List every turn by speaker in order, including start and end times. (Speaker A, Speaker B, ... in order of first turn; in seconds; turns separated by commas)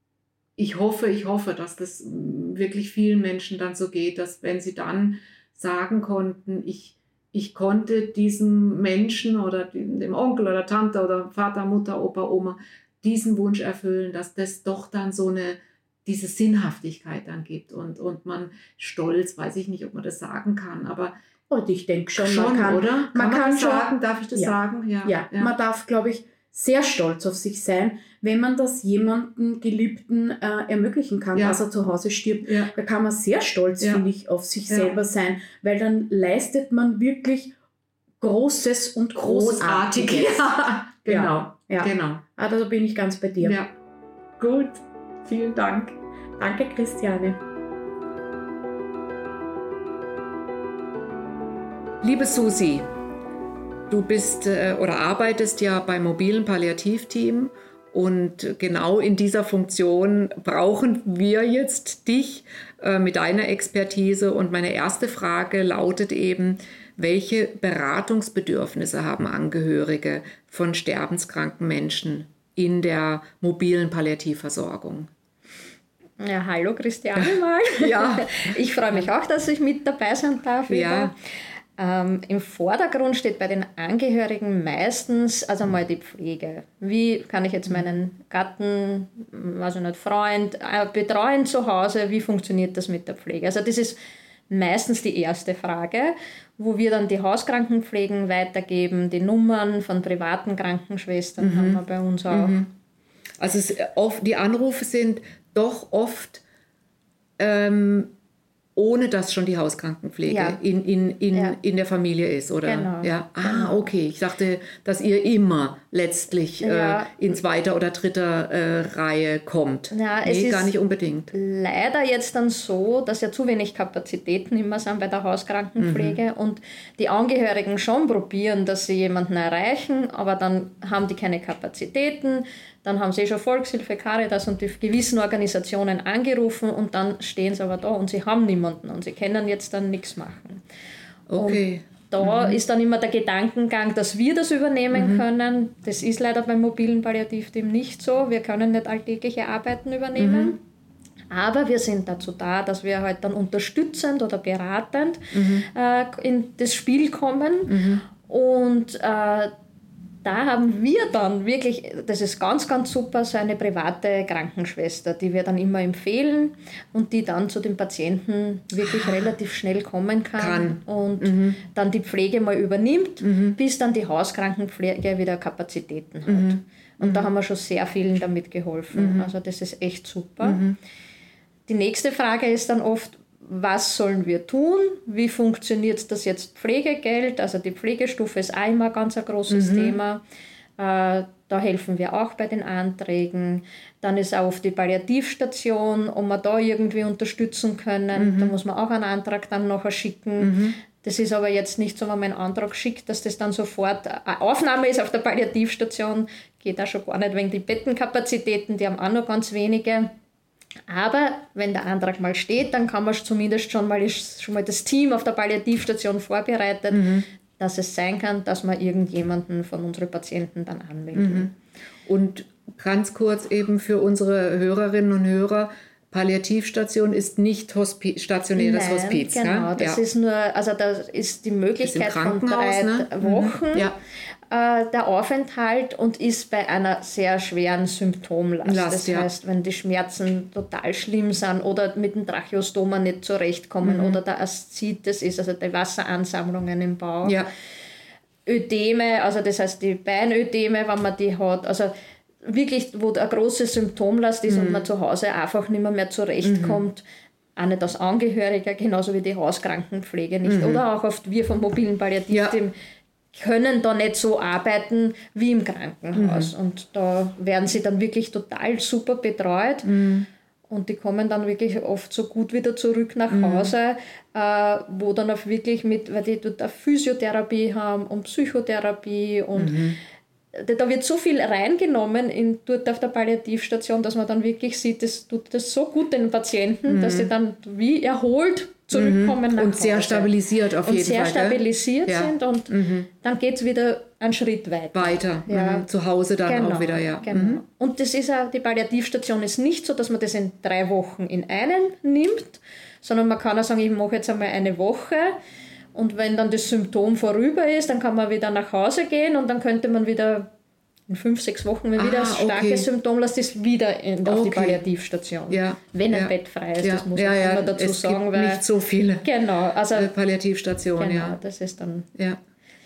Speaker A: 0.6-21.1, Speaker B: 21.5-37.5, Speaker A: 22.2-25.5, Speaker A: 31.3-31.6, Speaker A: 32.5-32.7, Speaker A: 34.7-35.0, Speaker B: 38.2-43.6, Speaker A: 39.2-42.2, Speaker A: 43.4-43.7, Speaker A: 44.4-46.0, Speaker B: 46.4-47.4, Speaker A: 52.0-52.9, Speaker A: 53.9-75.1, Speaker C: 76.2-81.1, Speaker A: 77.2-79.1, Speaker A: 80.7-81.1, Speaker C: 81.8-94.0, Speaker C: 94.5-102.6, Speaker A: 101.4-102.7, Speaker A: 103.4-106.4, Speaker A: 107.4-108.1, Speaker A: 108.8-121.3, Speaker C: 110.3-110.6, Speaker C: 112.6-113.8, Speaker C: 116.6-117.1, Speaker C: 119.9-120.7, Speaker C: 121.3-140.6, Speaker A: 125.8-126.2, Speaker A: 141.3-142.6, Speaker C: 141.4-150.6, Speaker A: 144.9-145.2, Speaker A: 150.2-150.6, Speaker C: 151.3-159.5, Speaker A: 155.3-155.7, Speaker A: 157.7-158.0, Speaker C: 160.2-180.6, Speaker A: 168.8-169.3, Speaker A: 170.4-171.6, Speaker A: 173.2-173.6, Speaker A: 176.3-177.3, Speaker A: 178.9-179.3, Speaker A: 180.4-180.8, Speaker C: 181.7-190.2, Speaker A: 189.5-190.0, Speaker C: 190.8-210.1, Speaker A: 198.1-198.5, Speaker A: 200.4-200.8, Speaker C: 210.9-221.5, Speaker A: 216.9-217.2, Speaker A: 221.1-221.5, Speaker A: 222.1-230.0, Speaker C: 228.6-233.9, Speaker A: 231.8-233.9, Speaker C: 234.5-247.4, Speaker A: 238.6-239.3, Speaker A: 243.8-244.2, Speaker C: 248.4-251.9, Speaker C: 252.4-257.0, Speaker A: 254.5-254.9, Speaker A: 256.4-256.8, Speaker C: 257.6-262.7, Speaker A: 260.4-260.8, Speaker A: 262.3-262.6, Speaker C: 263.3-269.9, Speaker A: 266.1-266.5, Speaker A: 269.8-270.3, Speaker C: 270.7-279.9, Speaker A: 273.3-273.7, Speaker A: 279.6-280.0, Speaker C: 280.5-295.9, Speaker A: 286.9-287.3, Speaker A: 288.9-293.1, Speaker A: 294.9-297.6, Speaker C: 296.5-305.4, Speaker C: 305.9-310.5, Speaker C: 311.1-318.6, Speaker A: 312.0-312.9, Speaker A: 314.2-314.8, Speaker A: 315.5-319.2, Speaker C: 319.2-320.1, Speaker A: 319.9-321.4, Speaker C: 321.0-322.1